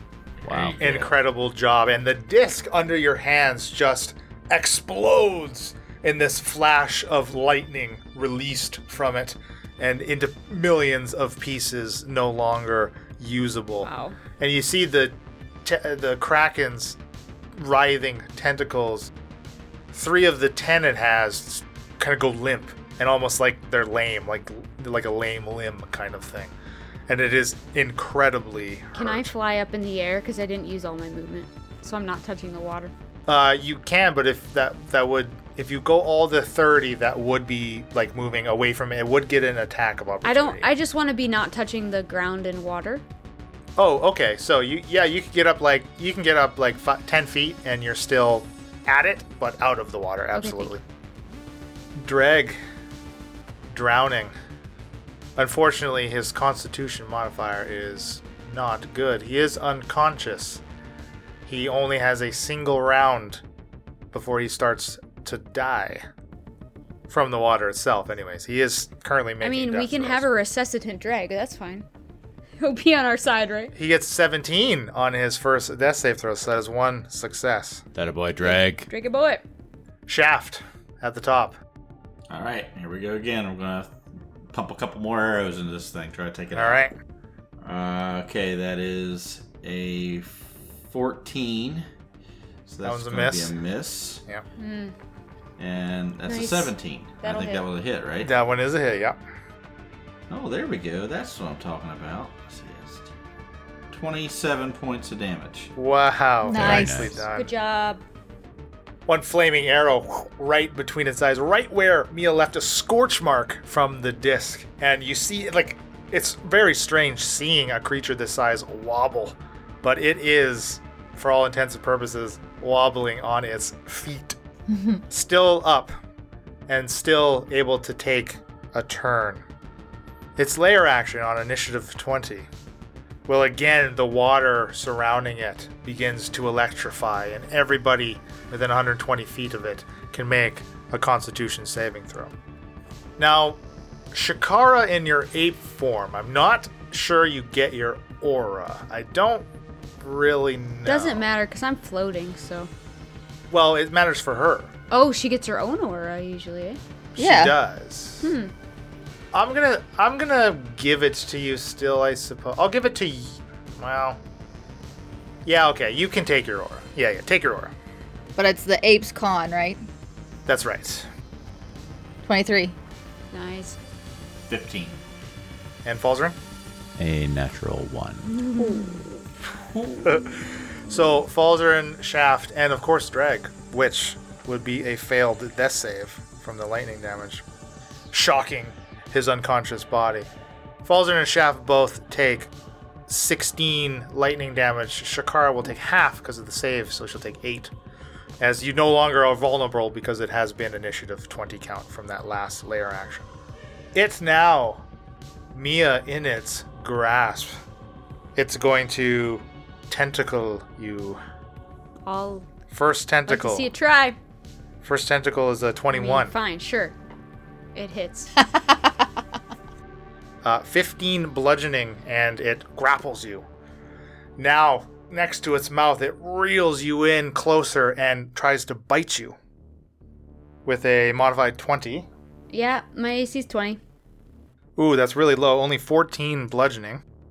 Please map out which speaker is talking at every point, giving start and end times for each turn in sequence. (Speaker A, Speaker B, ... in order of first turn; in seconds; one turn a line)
Speaker A: 0.4-1.2
Speaker B: 0.5-0.8
Speaker C: 0.8-17.0
Speaker D: 13.8-14.2
Speaker C: 17.6-19.1
Speaker C: 19.9-26.5
Speaker C: 27.1-29.3
Speaker D: 28.9-32.9
Speaker C: 33.3-40.7
Speaker D: 40.2-43.0
Speaker C: 43.8-50.8
Speaker D: 50.3-50.7
Speaker C: 52.0-52.6
Speaker C: 53.7-54.3
Speaker C: 55.4-60.6
Speaker C: 61.5-63.4
Speaker C: 64.1-66.0
Speaker C: 67.1-70.2
Speaker D: 69.4-71.8
Speaker D: 72.6-73.7
Speaker C: 73.8-77.8
Speaker B: 78.0-78.9
Speaker D: 78.4-79.4
Speaker C: 80.1-81.5
Speaker A: 82.3-84.0
Speaker A: 84.5-86.9
Speaker C: 86.5-86.9
Speaker A: 87.6-91.8
Speaker A: 92.7-94.2
Speaker C: 92.8-93.5
Speaker D: 94.6-94.9
Speaker A: 95.6-98.3
Speaker D: 96.3-97.7
Speaker C: 98.2-99.2
Speaker A: 100.3-103.1
Speaker A: 103.9-105.7
Speaker C: 105.8-107.5
Speaker E: 106.4-107.1
Speaker B: 106.5-107.2
Speaker D: 107.3-108.0
Speaker C: 109.1-124.4
Speaker E: 124.7-125.0
Speaker C: 125.1-126.0
Speaker C: 126.7-129.4
Speaker C: 130.4-132.5
Speaker C: 133.3-142.3
Speaker C: 143.2-143.6
Speaker C: 144.1-149.5
Speaker C: 150.0-151.3
Speaker D: 150.9-152.7
Speaker C: 153.5-154.7
Speaker D: 154.9-156.8
Speaker C: 157.1-158.3
Speaker E: 157.2-157.6
Speaker D: 158.2-158.5
Speaker C: 159.3-164.2
Speaker C: 165.4-167.7
Speaker E: 168.4-169.8
Speaker C: 170.5-171.1
Speaker E: 172.2-172.8
Speaker D: 173.3-173.8
Speaker A: 174.5-175.0
Speaker C: 175.8-176.4
Speaker B: 177.0-178.3
Speaker D: 178.4-179.0
Speaker E: 178.6-179.1
Speaker A: 179.7-180.0
Speaker C: 180.0-187.4
Speaker C: 188.1-190.3
Speaker C: 190.8-192.5
Speaker C: 193.1-197.7
Speaker C: 198.4-203.3
Speaker C: 203.9-204.8
Speaker C: 205.5-207.6
Speaker C: 208.4-211.2
Speaker D: 212.1-212.5
Speaker C: 212.7-213.7
Speaker D: 213.3-214.2
Speaker C: 214.8-216.3
Speaker D: 215.9-217.0
Speaker D: 217.8-218.4
Speaker C: 220.4-223.4
Speaker C: 224.4-229.4
Speaker C: 230.7-232.1
Speaker D: 232.5-233.8
Speaker C: 234.8-237.0